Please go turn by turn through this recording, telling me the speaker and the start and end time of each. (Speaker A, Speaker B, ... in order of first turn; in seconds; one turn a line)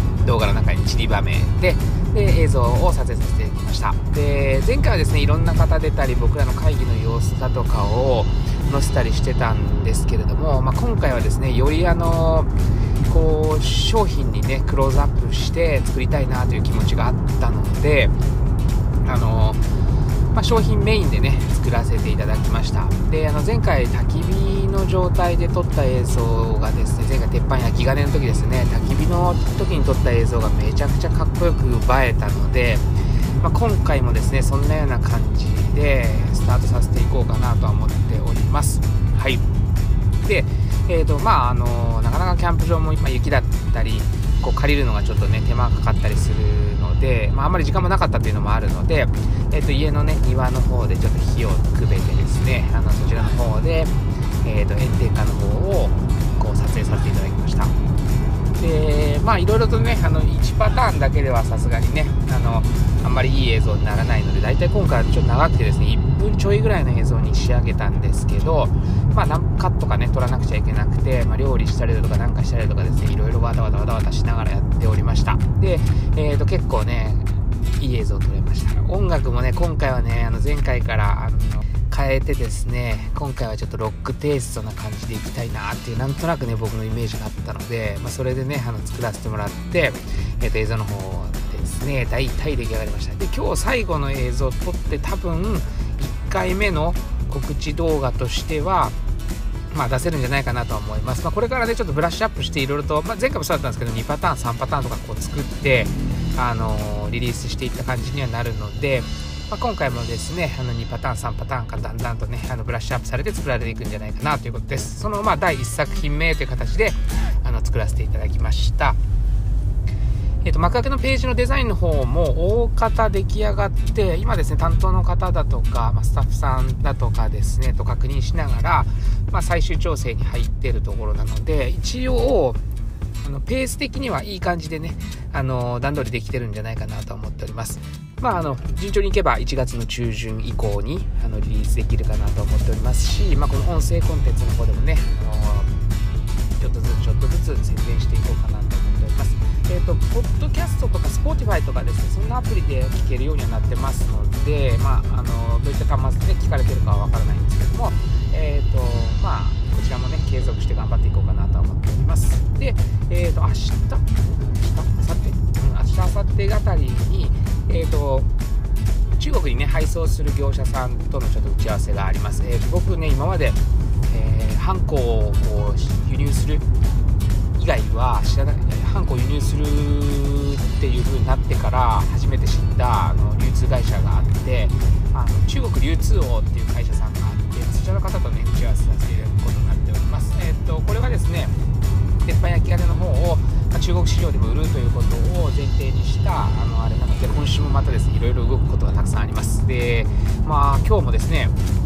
Speaker A: 0.2-12.5
Speaker A: 13.0-18.1
Speaker A: 19.0-19.6
Speaker A: 20.3-32.8
Speaker A: 33.4-39.4
Speaker A: 40.2-57.7
Speaker A: 58.6-98.9
Speaker A: 99.7-119.0
Speaker A: 120.4-132.6
Speaker A: 133.2-145.8
Speaker A: 146.6-168.3
Speaker A: 169.2-176.6
Speaker A: 177.6-191.5
Speaker A: 192.2-201.5